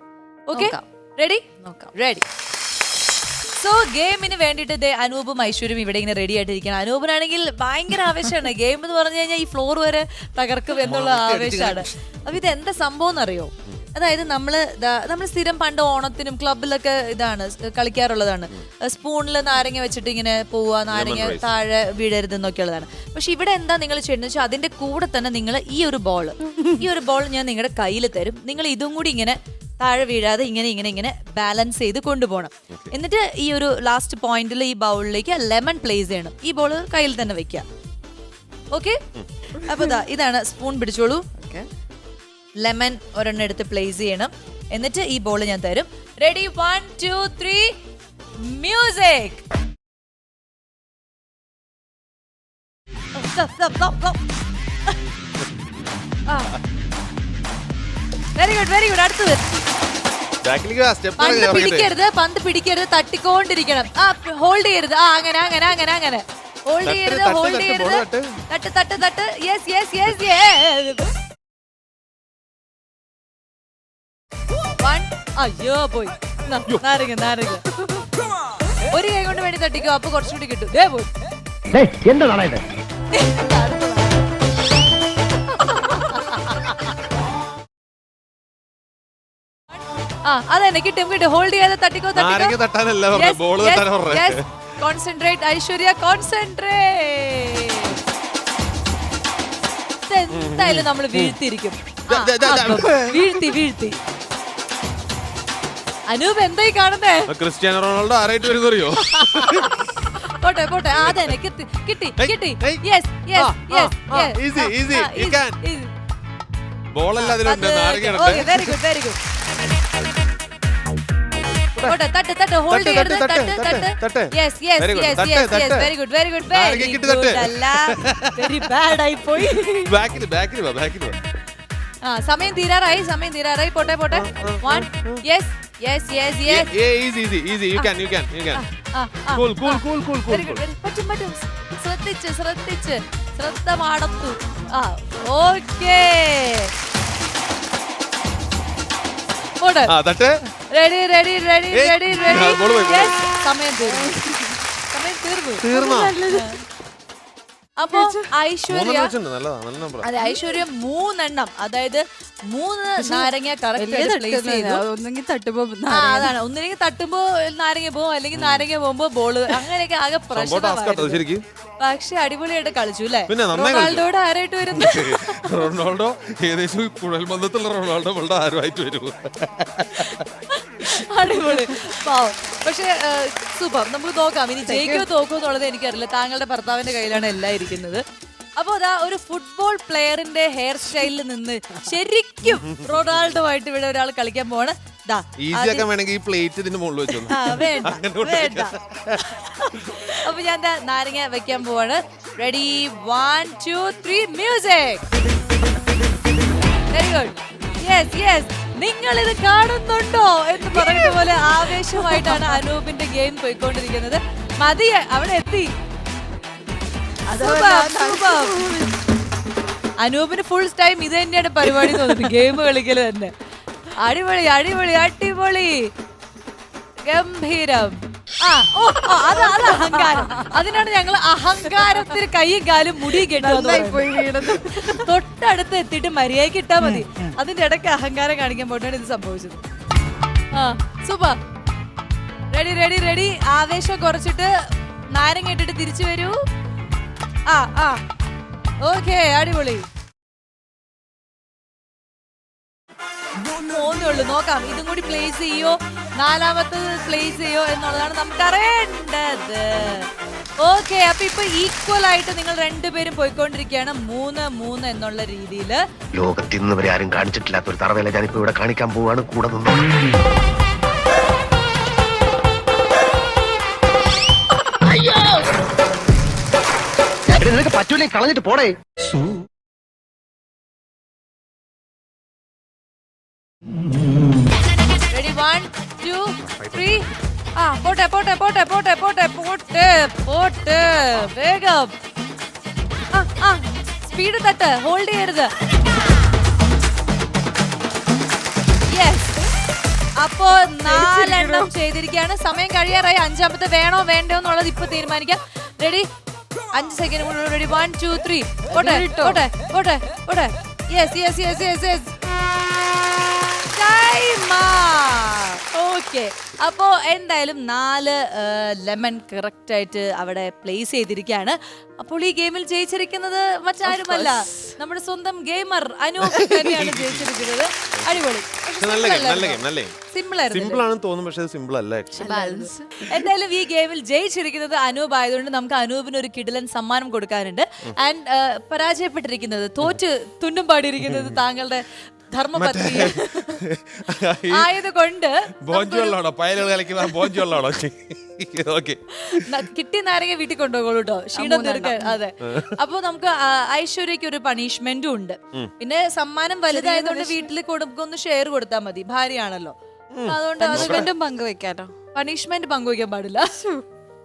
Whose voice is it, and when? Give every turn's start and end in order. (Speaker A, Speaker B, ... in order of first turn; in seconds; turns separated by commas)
Speaker A: 0.5-2.2, Speaker B: 0.5-0.8, Speaker B: 1.6-1.9, Speaker A: 3.6-37.6, Speaker C: 10.8-11.9, Speaker C: 20.9-21.5, Speaker A: 38.7-39.0, Speaker A: 39.5-41.2, Speaker B: 41.4-41.7, Speaker A: 42.6-47.8, Speaker A: 48.4-49.4, Speaker A: 53.1-54.2, Speaker A: 56.3-56.5, Speaker A: 58.4-59.4, Speaker C: 60.4-61.9, Speaker A: 61.2-71.2, Speaker C: 66.8-68.4, Speaker A: 74.8-78.2, Speaker A: 78.8-81.1, Speaker D: 81.7-82.6, Speaker A: 83.1-84.2, Speaker A: 85.5-86.8, Speaker A: 90.2-92.6, Speaker C: 92.1-94.5, Speaker A: 93.1-98.0, Speaker A: 100.0-104.0, Speaker C: 100.3-101.3, Speaker C: 102.1-103.5, Speaker A: 106.1-107.3, Speaker C: 107.3-109.8, Speaker A: 109.0-115.9, Speaker C: 111.0-111.3, Speaker C: 112.2-115.6, Speaker C: 116.9-118.8, Speaker A: 117.2-119.2, Speaker A: 121.8-129.9, Speaker C: 122.7-125.9, Speaker C: 126.5-128.7, Speaker B: 129.3-129.8, Speaker C: 129.8-131.2, Speaker A: 132.0-136.7, Speaker C: 134.1-135.2, Speaker C: 136.4-138.6, Speaker A: 138.5-146.7, Speaker C: 139.3-140.6, Speaker A: 149.6-149.9, Speaker C: 149.9-150.4, Speaker A: 150.7-154.2, Speaker C: 151.7-153.3, Speaker B: 153.8-154.6, Speaker A: 154.9-155.7, Speaker C: 155.6-156.2, Speaker B: 155.7-156.6, Speaker A: 156.2-156.6, Speaker A: 157.8-159.1, Speaker B: 157.9-158.3, Speaker C: 158.7-160.1, Speaker B: 160.0-160.6, Speaker A: 160.0-164.8, Speaker B: 163.0-166.3, Speaker A: 165.9-171.2, Speaker C: 168.3-168.7, Speaker C: 170.3-171.4, Speaker A: 171.8-175.6, Speaker C: 173.3-174.1, Speaker C: 174.7-180.2, Speaker A: 180.0-188.0, Speaker B: 184.6-185.0, Speaker A: 188.6-195.9, Speaker C: 192.6-193.3, Speaker C: 195.4-200.0, Speaker A: 197.2-198.7, Speaker A: 199.3-205.0, Speaker A: 206.9-215.7, Speaker B: 210.9-212.6, Speaker A: 217.3-218.6, Speaker B: 217.3-218.9, Speaker A: 220.0-223.3, Speaker B: 221.7-222.3, Speaker A: 223.9-225.9, Speaker A: 227.1-239.6, Speaker B: 229.4-230.6, Speaker B: 231.8-232.1, Speaker B: 233.1-235.1, Speaker A: 240.5-241.4, Speaker A: 242.5-246.4, Speaker A: 247.5-248.0, Speaker A: 248.8-249.8, Speaker A: 253.4-260.1, Speaker A: 260.6-265.8, Speaker D: 266.1-269.9, Speaker D: 277.3-278.8, Speaker A: 285.1-291.9, Speaker A: 293.1-295.5, Speaker A: 298.9-299.4, Speaker A: 300.2-306.1, Speaker B: 300.8-301.7, Speaker A: 306.7-312.1, Speaker B: 308.7-309.4, Speaker A: 313.6-330.8, Speaker B: 323.8-324.7, Speaker C: 326.2-327.3, Speaker C: 328.8-329.9, Speaker C: 330.5-332.3, Speaker B: 332.1-333.2, Speaker A: 332.2-343.6, Speaker C: 341.0-341.4, Speaker C: 342.5-344.7, Speaker A: 344.5-346.2, Speaker C: 345.6-349.6, Speaker A: 347.0-347.4, Speaker A: 349.1-359.7, Speaker B: 351.3-352.2, Speaker C: 352.4-352.8, Speaker B: 356.7-357.5, Speaker C: 360.1-361.1, Speaker A: 360.3-361.1, Speaker B: 360.6-361.9, Speaker A: 362.1-363.6, Speaker B: 363.5-363.8